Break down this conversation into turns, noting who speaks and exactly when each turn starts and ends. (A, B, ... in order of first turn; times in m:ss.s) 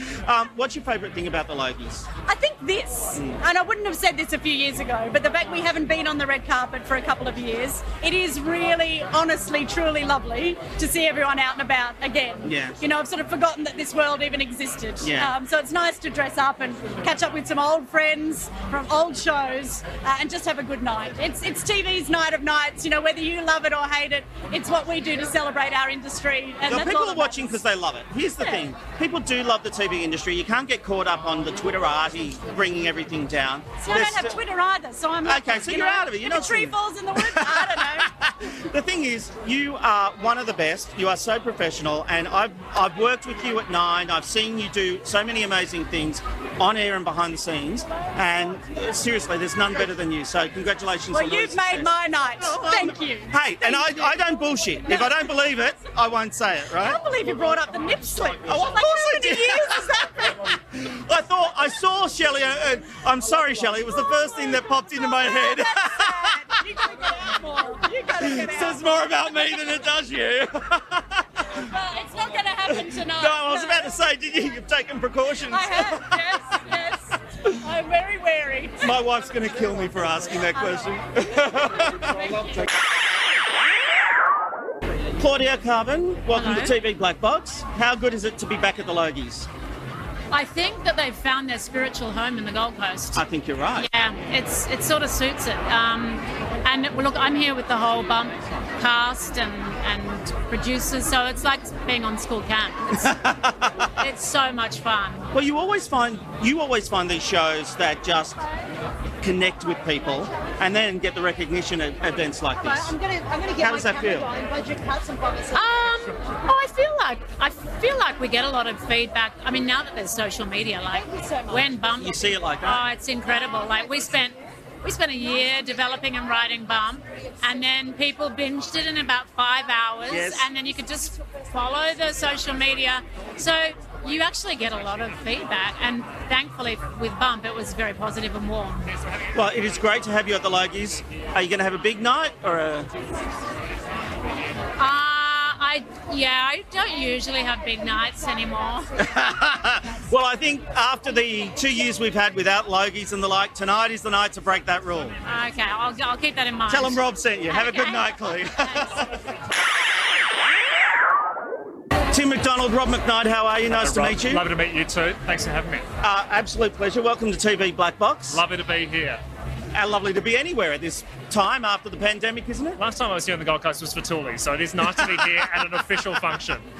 0:00.2-0:02.1 A
0:02.2-0:27.6 B
0:12.4-0:12.8 A
0:15.0-0:15.3 A
0:26.6-0:34.4 A
0:33.8-0:38.1 B
0:35.2-0:57.0 A
0:51.1-0:54.2 B
0:54.8-0:55.2 B
0:56.8-1:00.5 B
0:58.4-1:00.1 A
1:00.8-1:06.3 A
1:04.9-1:09.1 B
1:08.2-1:11.2 A
1:11.7-1:13.9 B
1:12.7-1:16.4 A
1:15.5-1:18.9 B
1:18.8-1:22.4 A
1:20.5-1:20.9 B
1:25.2-1:29.5 A
1:26.4-1:26.7 C
1:30.3-1:33.2 C
1:33.1-1:33.9 A
1:33.8-1:43.2 C
1:42.9-1:43.9 A
1:44.0-1:45.3 C
1:45.3-1:48.4 A
1:49.2-1:53.0 A
1:53.6-1:54.3 A
1:55.5-2:18.9 C
2:02.0-2:02.8 A
2:10.1-2:10.4 A
2:19.3-2:22.9 A
2:24.8-2:29.0 C
2:29.0-2:35.2 A
2:35.2-2:39.0 C
2:36.7-2:39.1 A
2:42.1-2:44.4 A
2:43.7-2:45.8 D
2:46.0-2:48.4 A
2:48.3-2:49.2 D
2:49.7-2:52.8 A
2:52.8-2:56.6 D